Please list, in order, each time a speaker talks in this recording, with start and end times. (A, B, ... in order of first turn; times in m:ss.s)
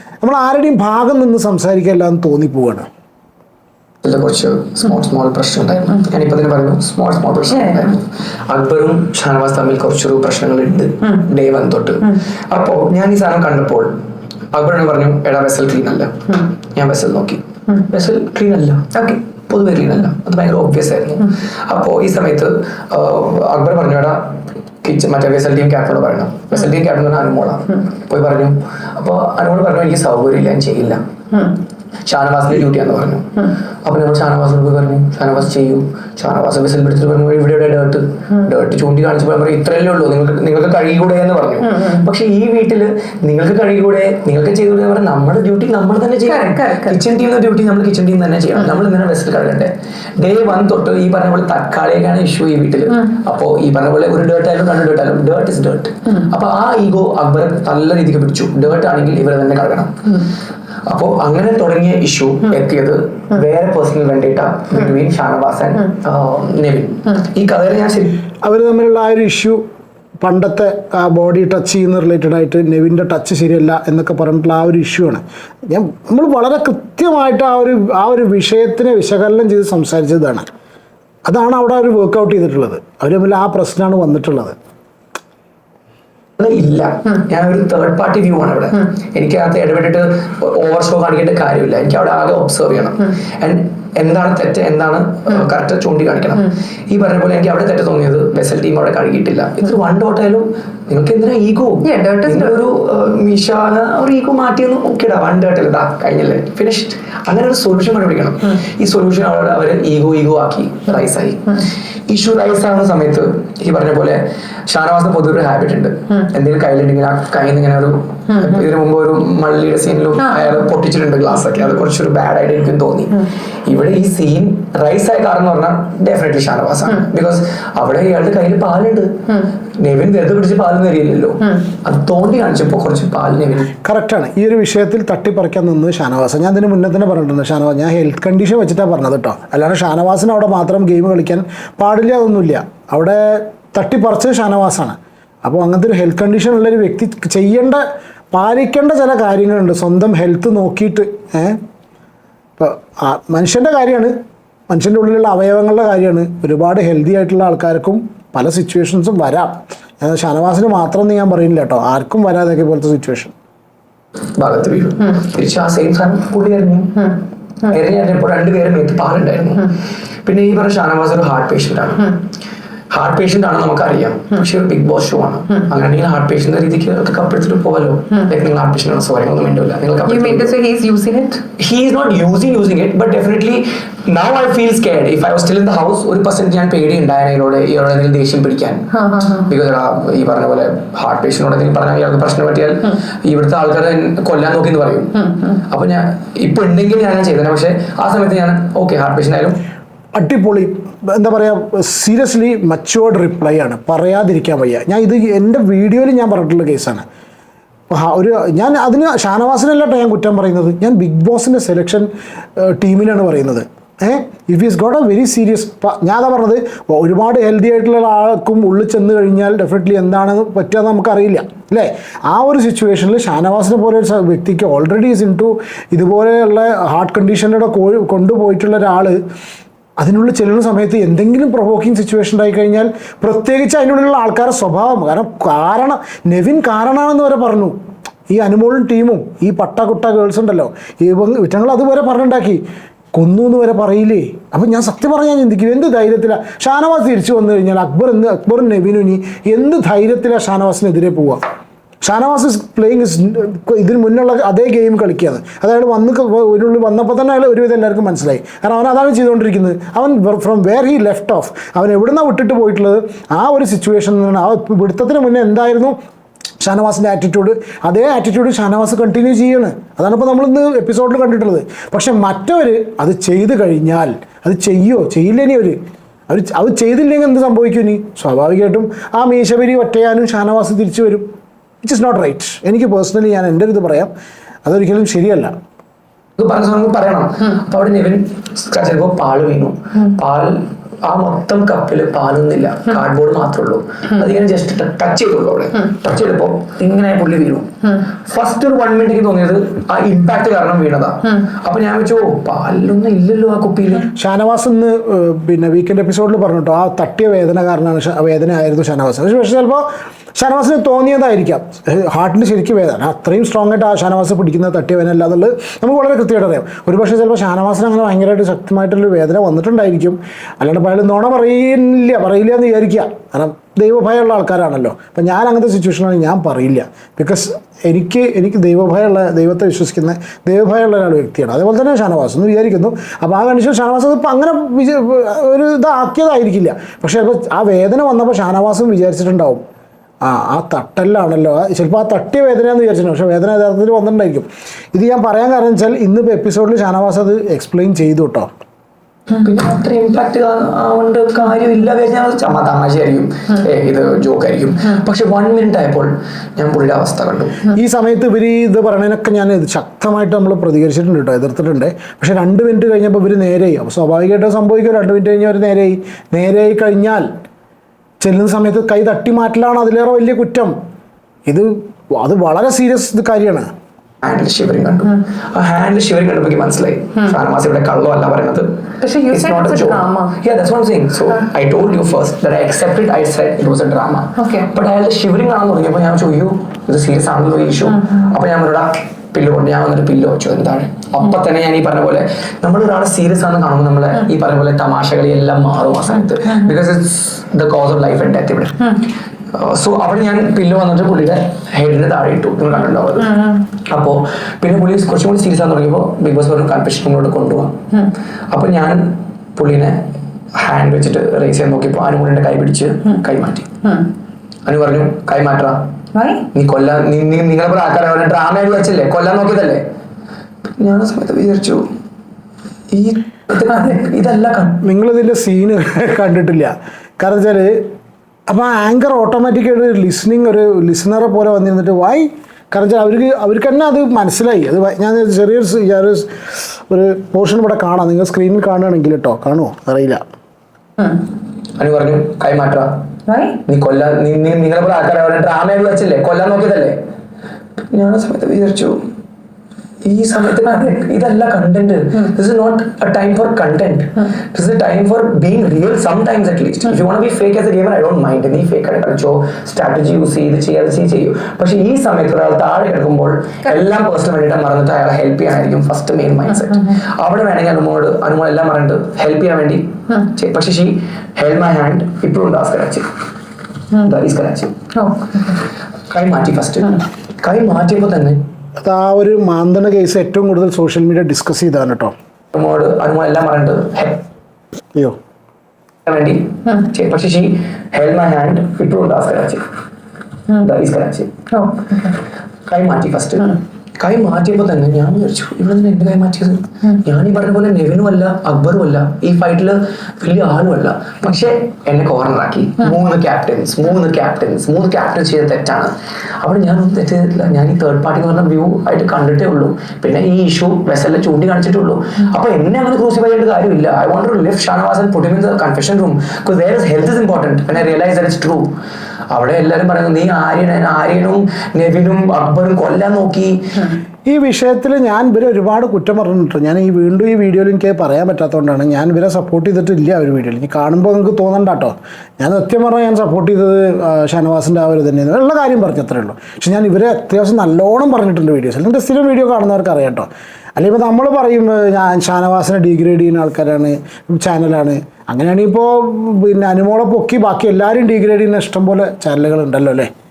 0:00.2-0:02.9 A
0:04.0-0:14.0 B
0:14.5-0:31.0 B
0:32.1-1:00.2 B
0:46.3-0:47.0 C
1:00.9-1:08.2 B
1:08.4-1:09.6 A
1:10.2-1:20.5 A
1:21.3-1:24.6 A
1:26.4-2:13.7 B
1:41.8-1:42.6 C
2:13.8-2:31.6 A
2:32.6-2:34.1 A
2:34.7-2:43.3 A
2:44.4-2:47.1 B
2:47.6-2:49.7 B
2:50.3-2:52.1 B
2:52.9-3:00.5 B
3:00.1-3:01.4 C
3:01.6-3:19.6 B
3:09.0-3:09.4 C
3:20.2-3:27.0 A
3:27.9-3:49.2 A
3:50.0-3:57.8 A
3:58.3-4:02.6 A
4:03.2-4:11.4 A
4:12.0-4:26.0 A
4:26.6-4:35.8 A
4:36.3-4:41.3 A
4:41.8-4:44.1 A
4:44.6-4:45.6 A
4:46.4-4:57.7 B
4:58.3-5:04.1 B
5:04.1-5:39.6 A
5:40.2-5:48.5 A
5:49.3-5:57.7 B
5:57.7-6:07.3 A
6:08.2-6:10.8 A
6:11.5-6:13.7 A
6:14.2-6:18.7 B
6:19.0-6:20.4 C
6:19.3-6:39.0 B
6:39.5-6:47.8 B
6:48.5-6:53.7 B
6:54.7-6:55.9 B
6:56.2-6:56.4 C
6:56.5-6:59.8 B
7:00.8-7:01.9 B
7:02.9-7:04.8 B
7:04.8-7:07.9 A
7:08.5-7:20.2 A
7:21.8-7:23.0 B
7:23.3-7:23.6 C
7:23.6-7:27.0 B
7:27.9-7:29.0 B
7:30.0-7:53.1 B
7:54.0-7:54.8 B
7:55.0-7:55.6 C
7:56.1-7:58.4 B
7:58.8-8:02.1 A
8:02.5-8:04.3 B
8:06.0-8:09.6 B
8:10.5-8:11.3 B
8:11.5-8:12.1 C
8:12.7-8:38.7 B
8:39.3-8:43.8 B
8:44.3-9:10.1 A